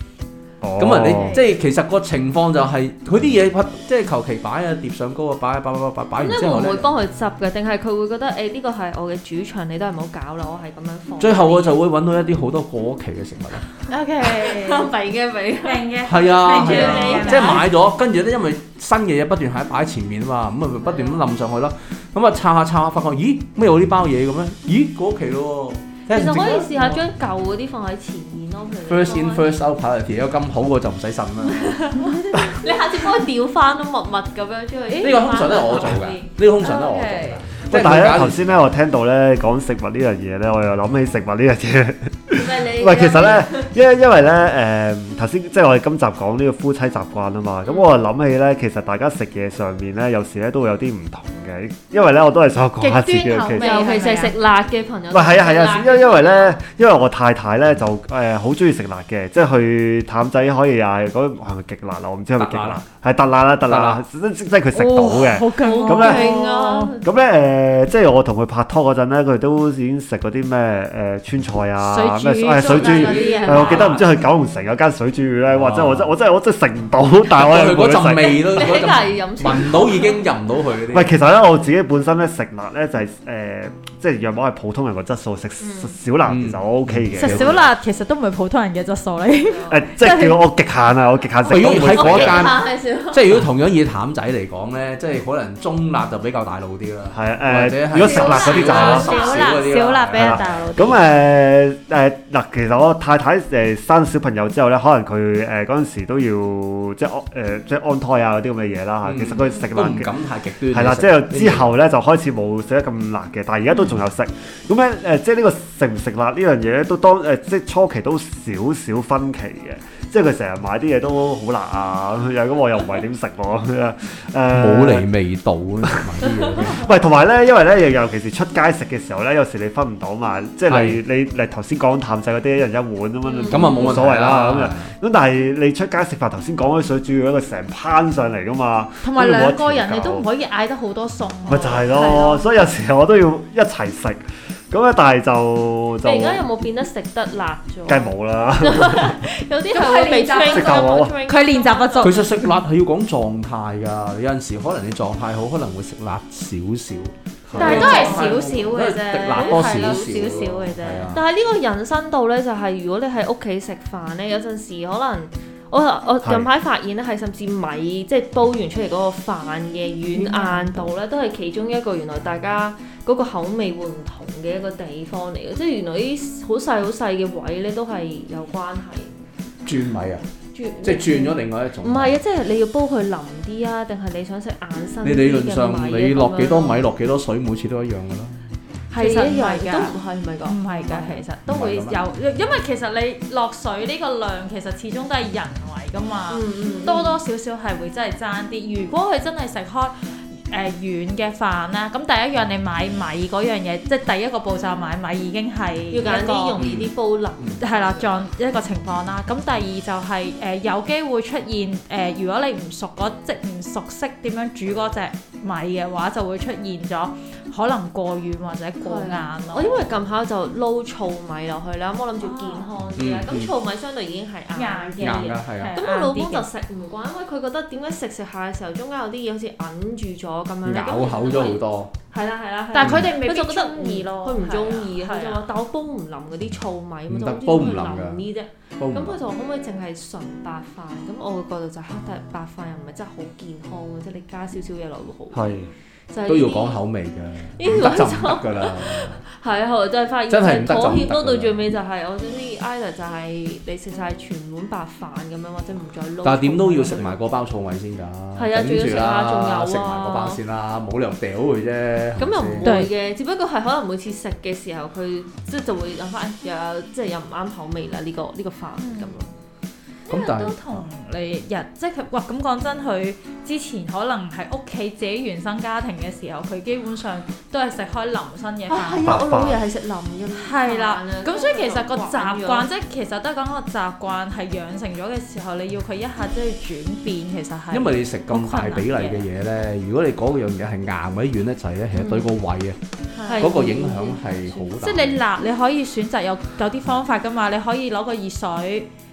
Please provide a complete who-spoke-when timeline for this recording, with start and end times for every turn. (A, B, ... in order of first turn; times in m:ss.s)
0:00.6-0:01.4 A
0:00.8-0:06.9 B
0:06.2-0:11.8 C
0:11.2-0:13.7 B
0:13.9-0:14.9 D
0:14.2-0:17.6 C
0:15.6-0:17.7 D
0:16.0-0:27.0 B
0:20.8-0:21.2 C
0:26.1-0:29.6 C
0:28.9-0:31.9 B
0:31.5-0:36.3 C
0:35.0-0:38.6 B
0:36.6-0:37.4 D
0:37.7-0:53.7 A
0:42.3-0:43.7 C
0:47.6-0:47.9 C
0:52.8-0:54.3 D
0:53.5-0:56.6 C
0:55.1-1:06.3 A
1:02.4-1:02.8 B
1:03.7-1:04.0 B
1:04.7-1:06.9 D
1:05.6-1:07.1 C
1:07.0-1:18.8 A
1:11.8-1:13.9 D
1:12.6-1:13.8 C
1:12.7-1:14.1 B
1:15.5-1:16.1 B
1:17.4-1:21.1 B
1:18.2-1:20.2 C
1:20.9-1:27.6 A
1:25.6-1:25.9 C
1:26.2-1:27.6 B
1:27.1-1:30.4 D
1:29.4-1:29.8 C
1:29.7-1:32.5 A
1:31.5-1:40.6 B
1:31.7-1:33.4 C
1:37.1-1:39.1 A
1:38.0-1:41.0 D
1:38.0-1:39.8 C
1:40.1-1:50.1 A
1:49.0-1:51.7 B
1:50.7-2:05.0 A
2:04.5-2:06.9 B
2:06.6-2:20.2 A
2:10.7-2:11.0 B
2:13.2-2:14.0 C
2:13.5-2:14.9 B
2:19.0-2:22.4 D
2:21.5-2:26.4 A
2:26.0-2:32.2 C
2:27.9-2:29.2 A
2:29.7-2:32.4 D
2:30.5-2:31.2 A
2:32.0-2:41.2 B
2:37.5-2:59.2 C
2:37.6-2:41.1 D
2:46.2-2:46.5 A
2:50.1-2:50.9 D
2:59.6-3:00.2 B
3:00.5-3:06.8 C
3:00.8-3:02.2 B
3:05.0-3:08.4 B
3:08.9-3:11.2 C
3:09.0-3:26.6 D
3:11.5-3:12.0 B
3:16.3-3:17.2 C
3:25.9-3:28.3 C
3:26.6-3:27.6 B
3:27.6-3:40.0 D
3:38.8-4:05.5 C
3:42.2-3:42.7 D
3:43.0-3:43.5 B
3:44.5-3:46.5 D
3:45.0-3:45.8 B
3:50.6-3:51.9 B
3:52.7-3:55.4 D
3:52.8-3:53.1 B
3:57.1-3:58.2 B
3:58.8-3:59.2 B
4:05.3-4:05.7 A
4:06.1-4:06.8 C
4:06.2-4:09.2 B
4:07.5-4:17.1 C
4:10.3-4:11.6 B
4:16.2-4:22.8 B
4:18.4-4:20.4 C
4:22.2-4:29.3 C
4:22.6-4:22.9 D
4:28.8-4:29.2 D
4:30.0-4:39.2 D
4:30.1-4:30.8 B
4:38.7-4:42.7 C
4:39.0-4:39.6 A
4:40.4-4:49.3 D
4:47.7-4:52.8 B
4:51.9-4:52.3 C
4:53.1-4:54.7 C
4:53.2-4:53.7 D
4:53.4-4:55.2 B
4:54.8-4:58.9 D